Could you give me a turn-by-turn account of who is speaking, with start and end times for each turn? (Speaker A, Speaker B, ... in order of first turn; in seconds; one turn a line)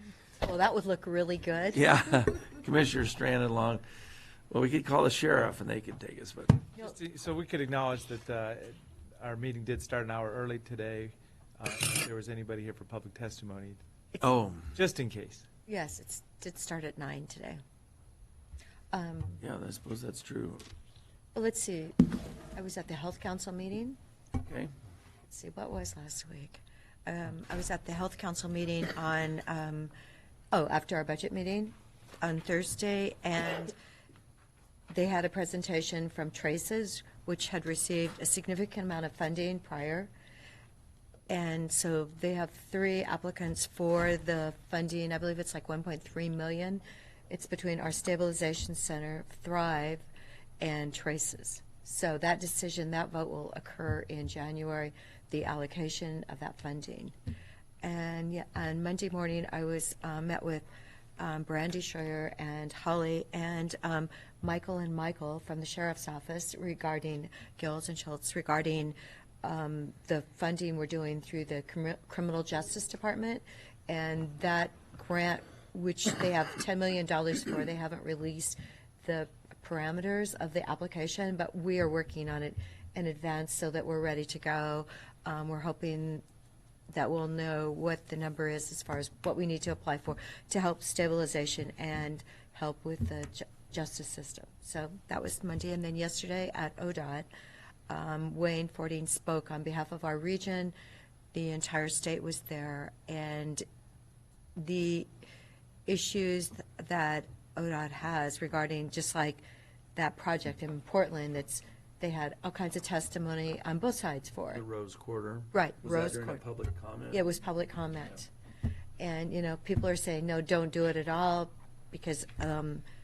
Speaker A: 0.4-1.9
Speaker B: 1.7-3.8
Speaker B: 4.5-6.6
Speaker C: 6.8-13.8
Speaker B: 14.2-14.7
Speaker C: 14.8-15.5
Speaker A: 15.7-17.6
Speaker A: 18.9-19.4
Speaker B: 19.4-20.6
Speaker A: 21.3-24.0
Speaker B: 24.4-24.7
Speaker A: 25.3-29.9
Speaker A: 30.5-33.7
Speaker A: 34.9-40.1
Speaker A: 41.3-50.1
Speaker A: 50.6-57.1
Speaker A: 57.8-60.7
Speaker A: 61.2-86.2
Speaker A: 86.9-97.3
Speaker A: 97.9-100.7
Speaker A: 101.3-103.6
Speaker A: 104.6-105.1
Speaker A: 105.9-109.4
Speaker A: 110.0-114.6
Speaker B: 114.5-117.3
Speaker A: 115.5-116.4
Speaker A: 117.1-118.3
Speaker A: 119.0-122.8